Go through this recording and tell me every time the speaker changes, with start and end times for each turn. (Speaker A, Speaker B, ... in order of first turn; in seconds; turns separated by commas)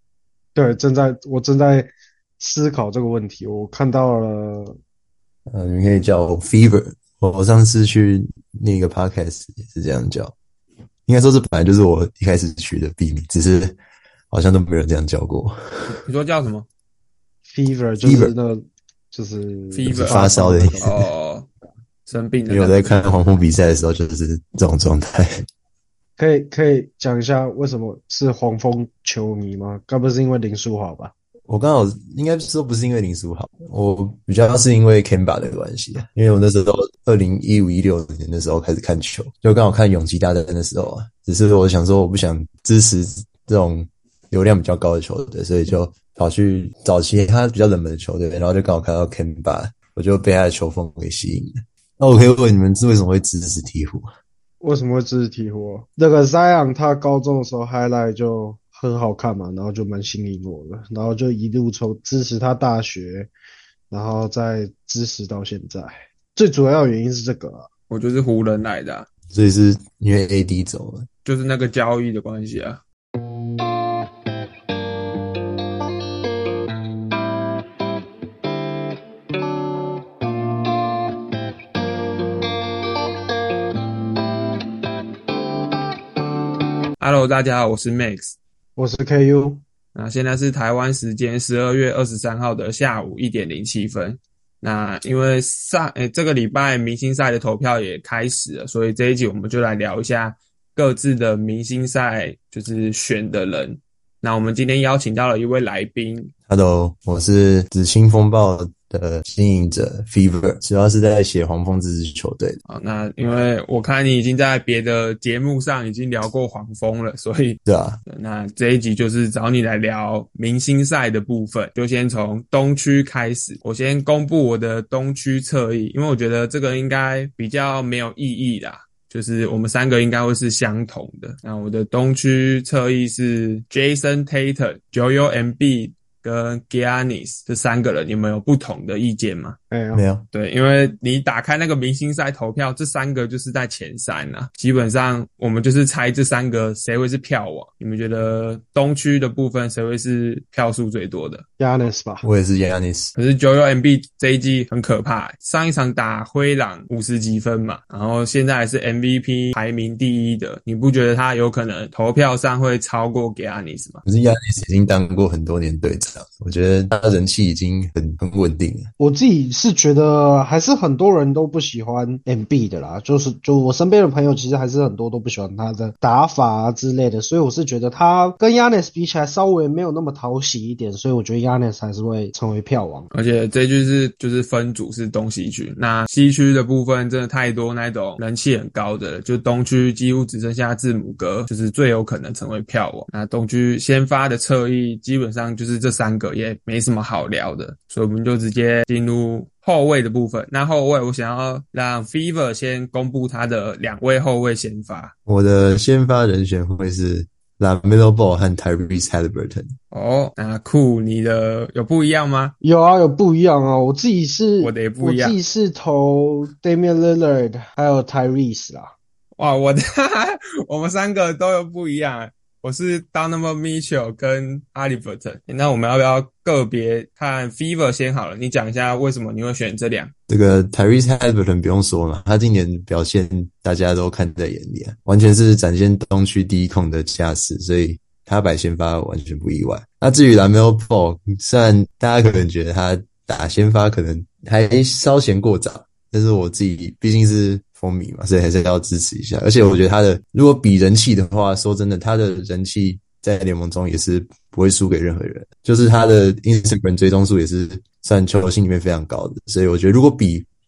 Speaker A: 0.5-1.9, Speaker A: 2.4-4.8, Speaker B: 5.5-10.3, Speaker B: 11.1-13.8, Speaker B: 14.3-15.9, Speaker C: 15.9-16.7, Speaker A: 17.5-20.9, Speaker B: 18.0-18.3, Speaker C: 19.7-21.5, Speaker B: 19.9-21.1, Speaker C: 22.1-23.1, Speaker B: 22.5-25.4, Speaker A: 26.2-31.1, Speaker B: 31.5-54.1, Speaker A: 54.6-63.3, Speaker A: 63.9-67.7, Speaker C: 67.9-69.1, Speaker B: 69.3-71.1, Speaker C: 71.2-72.8, Speaker C: 87.0-88.3, Speaker A: 88.8-89.6, Speaker C: 89.9-106.3, Speaker B: 106.5-112.6, Speaker C: 112.7-139.6, Speaker B: 117.7-118.0, Speaker A: 139.7-140.0, Speaker B: 139.9-140.2, Speaker C: 140.3-151.4, Speaker A: 151.6-152.2, Speaker B: 152.2-153.1, Speaker C: 153.1-164.0, Speaker B: 164.0-168.9, Speaker A: 169.0-183.1, Speaker C: 183.1-205.1, Speaker B: 205.3-209.8, Speaker C: 209.9-212.5, Speaker A: 212.6-218.9, Speaker C: 214.6-215.4, Speaker C: 219.4-230.1, Speaker B: 230.3-260.5